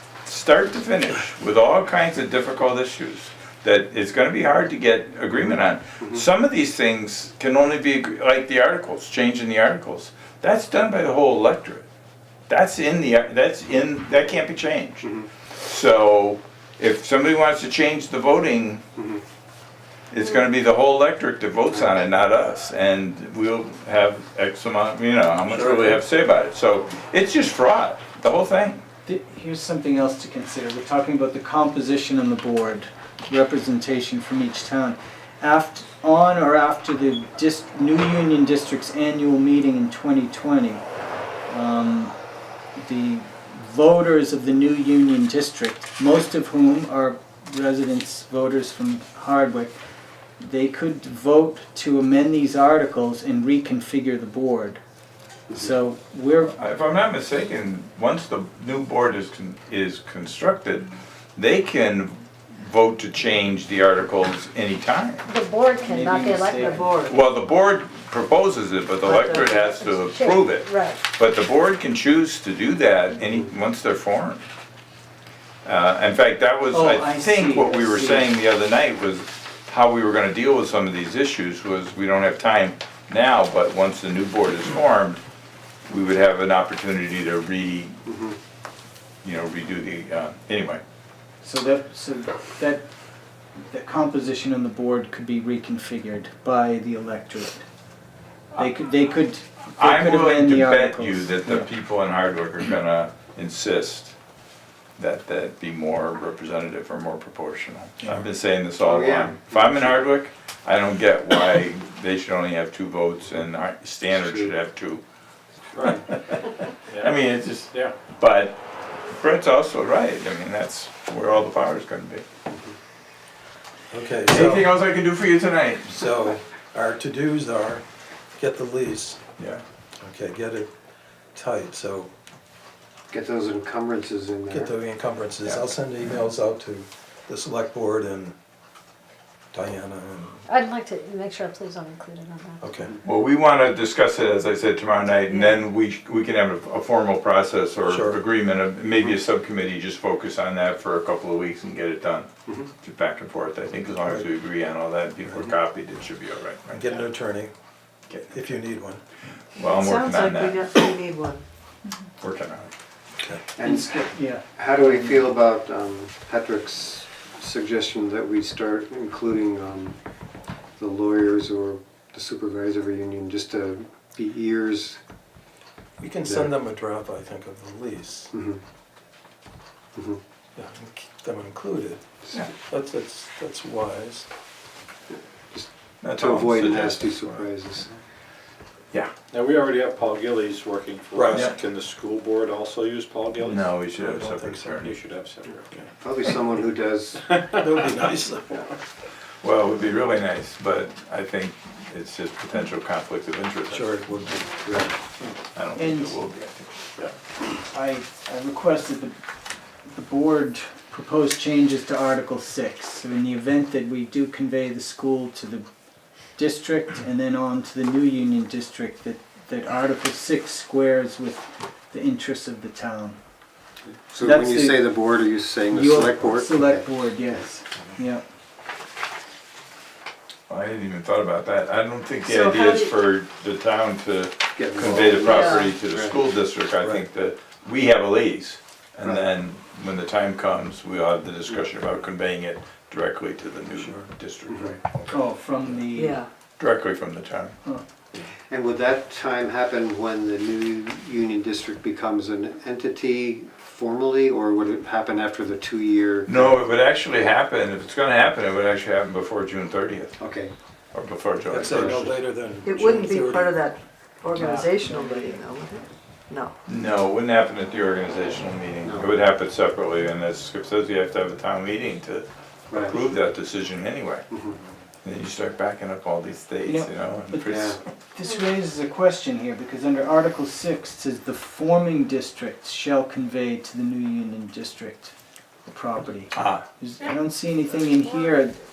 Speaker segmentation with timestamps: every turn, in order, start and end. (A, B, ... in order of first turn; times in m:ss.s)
0:00.2-0:11.8 A
0:12.5-0:15.1 A
0:15.6-0:18.8 A
0:19.0-0:19.2 B
0:20.1-0:28.8 A
0:29.0-0:40.8 C
0:41.5-0:42.1 C
0:42.8-0:49.7 C
0:50.4-0:54.8 C
0:55.6-0:56.5 C
0:56.5-1:05.2 A
1:05.2-1:06.9 D
1:05.8-1:06.8 C
1:06.7-1:07.2 E
1:07.0-1:14.4 A
1:09.0-1:11.0 D
1:09.2-1:09.6 E
1:15.6-1:25.2 A
1:16.7-1:18.3 C
1:25.9-1:28.0 A
1:28.1-1:28.4 B
1:29.2-1:30.8 A
1:31.4-1:32.8 C
1:33.7-1:37.6 C
1:38.6-1:41.7 C
1:39.8-1:44.1 A
1:45.0-1:55.0 A
1:48.8-1:50.1 B
1:54.1-1:54.5 B
1:55.7-1:57.2 F
1:57.0-2:02.2 A
2:03.9-2:04.7 G
2:04.3-2:06.1 A
2:05.9-2:07.8 G
2:08.4-2:09.2 G
2:09.4-2:09.6 A
2:10.0-2:10.7 G
2:11.3-2:12.1 G
2:13.1-2:14.7 B
2:14.5-2:18.3 G
2:15.4-2:15.7 A
2:19.5-2:20.4 G
2:20.5-2:22.6 D
2:22.6-2:22.9 G
2:23.0-2:32.3 A
2:27.9-2:28.2 G
2:32.8-2:37.0 A
2:36.7-2:37.5 G
2:38.1-2:38.4 A
2:38.3-2:39.0 G
2:39.6-2:40.9 A
2:39.6-2:41.4 E
2:42.2-2:42.7 A
2:43.2-2:43.4 G
2:43.6-2:50.0 B
2:43.6-2:45.3 C
2:50.8-2:55.0 B
2:56.0-2:58.3 G
2:56.2-2:56.5 B
2:58.3-2:58.6 B
3:00.6-3:04.3 G
3:05.1-3:08.0 B
3:06.0-3:07.4 A
3:09.3-3:13.9 F
3:11.1-3:11.5 G
3:13.4-3:14.9 A
3:14.0-3:14.8 G
3:14.6-3:15.9 F
3:16.0-3:17.2 B
3:17.2-3:18.1 F
3:17.6-3:18.6 G
3:19.4-3:24.0 A
3:23.7-3:24.4 G
3:24.5-3:24.9 B
3:25.5-3:26.8 A
3:25.7-3:26.2 C
3:27.7-3:29.2 C
3:29.8-3:35.7 C
3:36.4-3:43.2 C
3:44.1-3:46.8 B
3:44.2-3:44.9 C
3:45.7-3:48.2 C
3:50.5-4:05.8 A
3:52.2-3:52.9 E
3:54.6-3:56.2 B
3:55.3-3:55.6 E
3:59.0-3:59.3 B
4:03.8-4:04.0 G
4:04.5-4:04.7 B
4:05.1-4:06.2 C
4:06.0-4:06.3 E
4:06.6-4:07.6 A
4:08.5-4:16.6 B
4:16.2-4:20.2 A
4:20.2-4:20.5 B
4:20.9-4:22.1 A
4:21.5-4:23.5 G
4:21.8-4:22.1 B
4:22.6-4:26.5 E
4:24.3-4:25.4 C
4:26.6-4:34.3 A
4:28.8-4:29.1 B
4:32.7-4:33.0 B
4:34.3-4:34.6 B
4:35.0-4:37.8 A
4:36.6-4:45.1 C
4:37.5-4:37.8 B
4:45.7-4:48.6 C
4:46.3-4:46.6 A